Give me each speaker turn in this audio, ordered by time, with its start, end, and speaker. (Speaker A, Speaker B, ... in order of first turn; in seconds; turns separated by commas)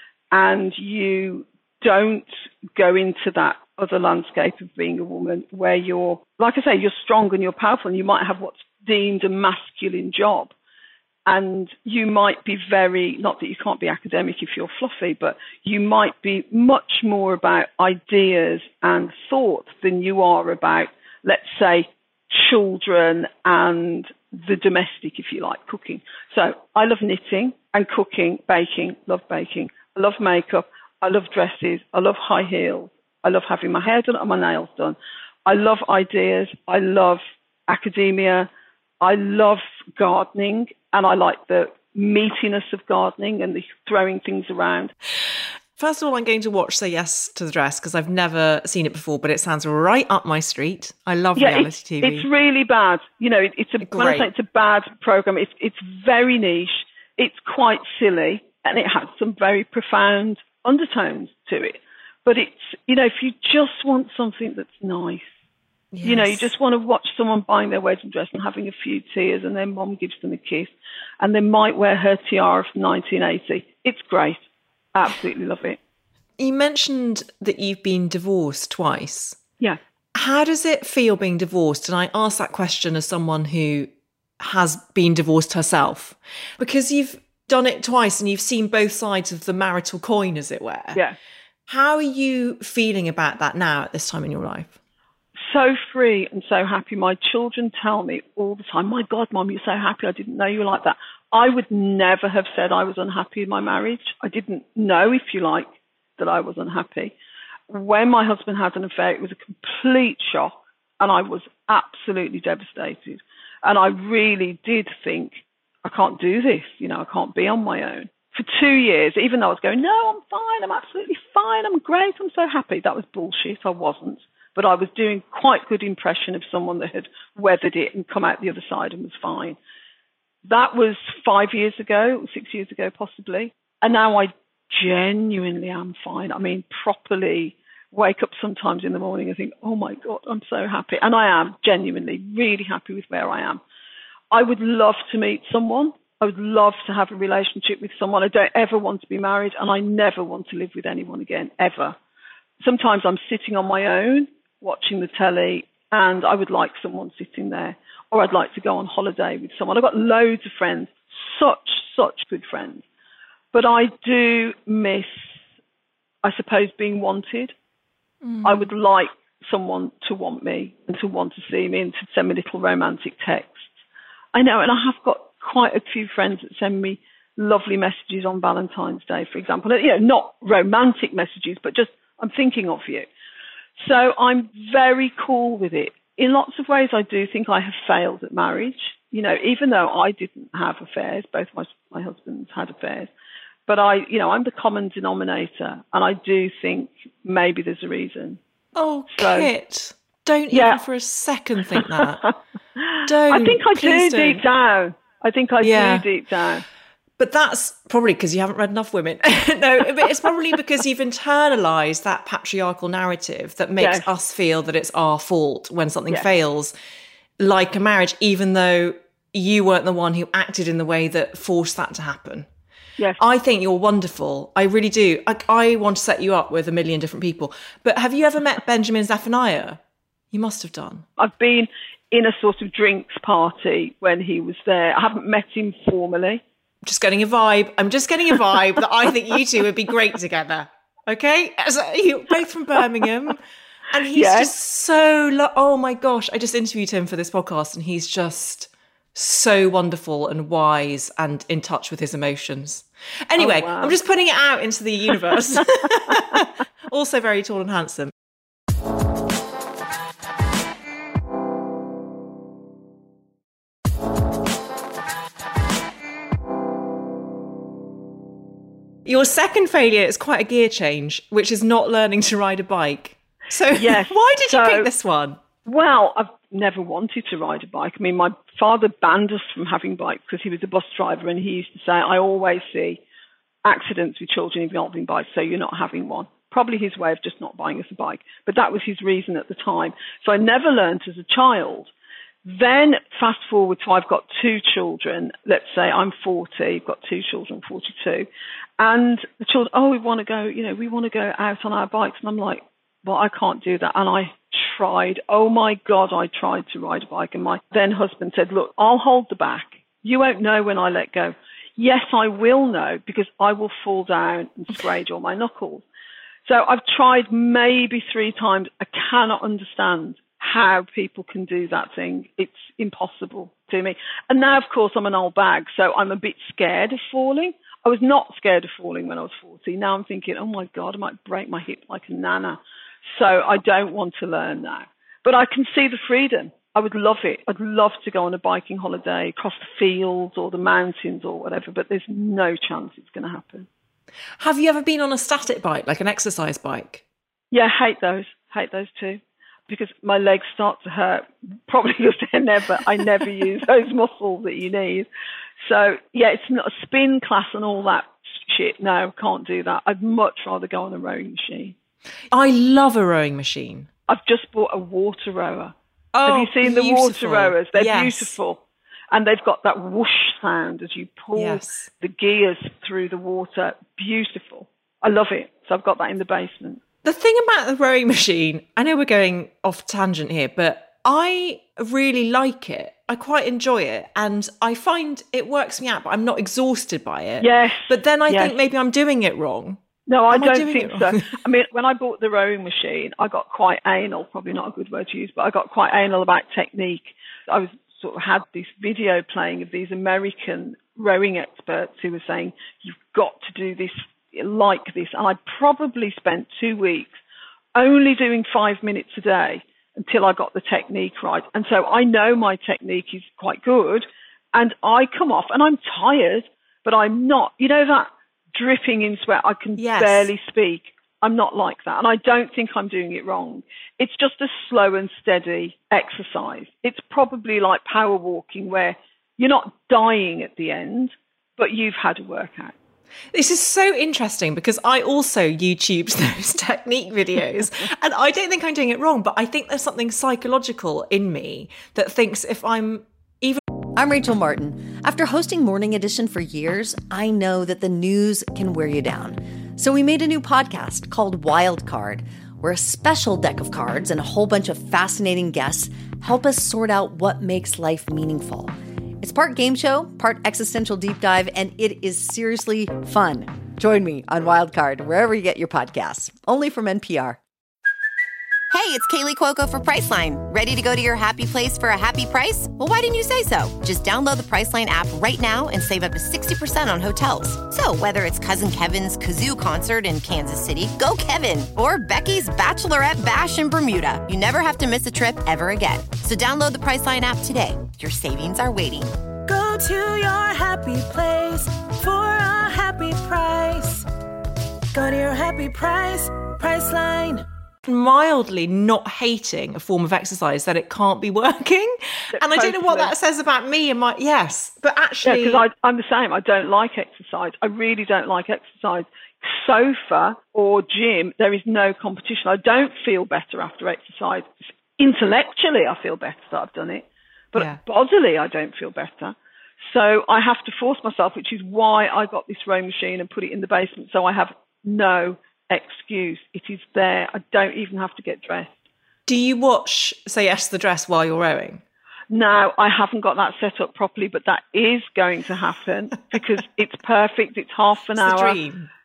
Speaker A: 0.3-10.5, Speaker A: 11.2-38.5, Speaker A: 39.0-44.9, Speaker B: 45.8-52.3, Speaker A: 51.4-65.3, Speaker B: 53.8-54.3, Speaker B: 65.9-66.5, Speaker A: 66.0-75.8, Speaker B: 76.4-79.4, Speaker B: 80.1-91.0, Speaker B: 91.7-94.8, Speaker A: 95.4-107.1, Speaker A: 107.7-129.6, Speaker A: 130.4-143.6, Speaker A: 144.3-152.0, Speaker A: 152.6-162.8, Speaker A: 163.5-165.4, Speaker A: 166.2-167.5, Speaker B: 168.2-168.7, Speaker A: 168.4-173.7, Speaker A: 174.3-183.1, Speaker A: 183.8-193.1, Speaker A: 193.7-198.4, Speaker B: 198.8-202.2, Speaker A: 199.1-199.5, Speaker A: 200.5-200.8, Speaker A: 201.8-206.6, Speaker B: 203.0-204.4, Speaker B: 205.6-206.0, Speaker B: 207.2-216.7, Speaker A: 213.8-214.1, Speaker B: 217.4-222.5, Speaker B: 223.2-229.8, Speaker B: 230.3-231.0, Speaker A: 231.2-236.4, Speaker B: 236.8-258.1, Speaker A: 244.1-244.5, Speaker A: 253.4-253.9, Speaker A: 255.6-256.2, Speaker B: 269.1-275.4, Speaker A: 273.7-274.9, Speaker A: 275.6-283.0, Speaker A: 283.6-291.9, Speaker A: 292.4-298.3, Speaker A: 298.8-315.8, Speaker A: 316.4-343.7, Speaker B: 344.4-347.0, Speaker A: 347.5-355.1, Speaker A: 355.6-361.8, Speaker B: 362.3-363.9, Speaker A: 364.1-365.7, Speaker B: 366.1-368.4, Speaker A: 366.2-368.6, Speaker A: 369.1-376.8, Speaker B: 371.3-371.9, Speaker B: 377.0-391.3, Speaker A: 387.4-388.6, Speaker A: 390.1-407.1, Speaker A: 407.7-432.7, Speaker B: 419.8-420.3, Speaker B: 433.3-443.6, Speaker C: 443.9-467.4, Speaker D: 468.7-489.1, Speaker E: 489.4-494.0, Speaker E: 494.9-497.4, Speaker B: 497.8-505.6, Speaker A: 502.3-503.1, Speaker A: 505.2-528.7, Speaker B: 517.5-517.8, Speaker B: 529.3-531.8, Speaker A: 532.3-538.6, Speaker B: 538.2-538.9